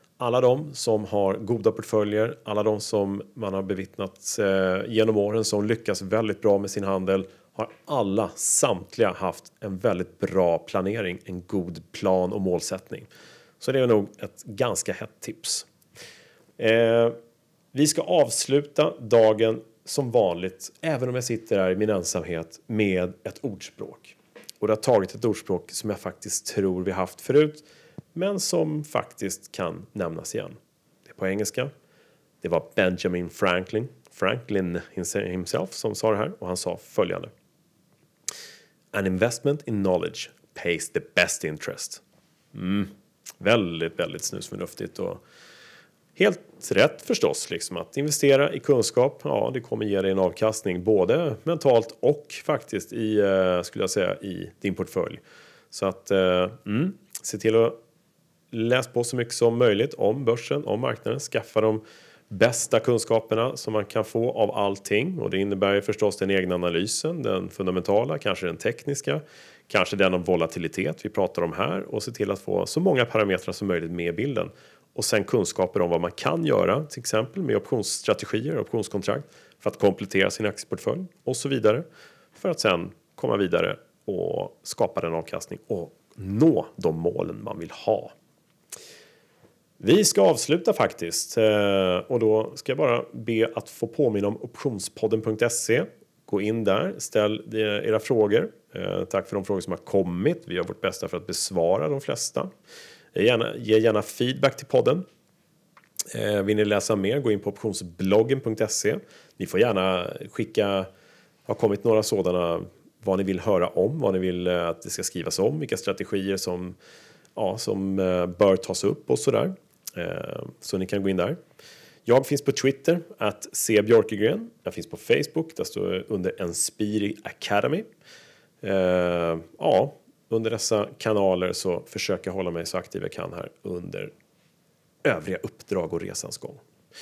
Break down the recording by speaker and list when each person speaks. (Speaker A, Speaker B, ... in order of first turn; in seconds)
Speaker A: 0.2-13.1, 13.6-15.7, 16.6-17.2, 17.7-31.7, 32.4-37.3, 38.9-42.0, 42.5-45.2, 46.1-57.8, 58.5-88.1, 89.8-102.5, 103.1-105.0, 106.1-110.9, 111.5-116.8, 117.3-121.4, 122.0-127.8, 128.6-134.1, 135.0-136.6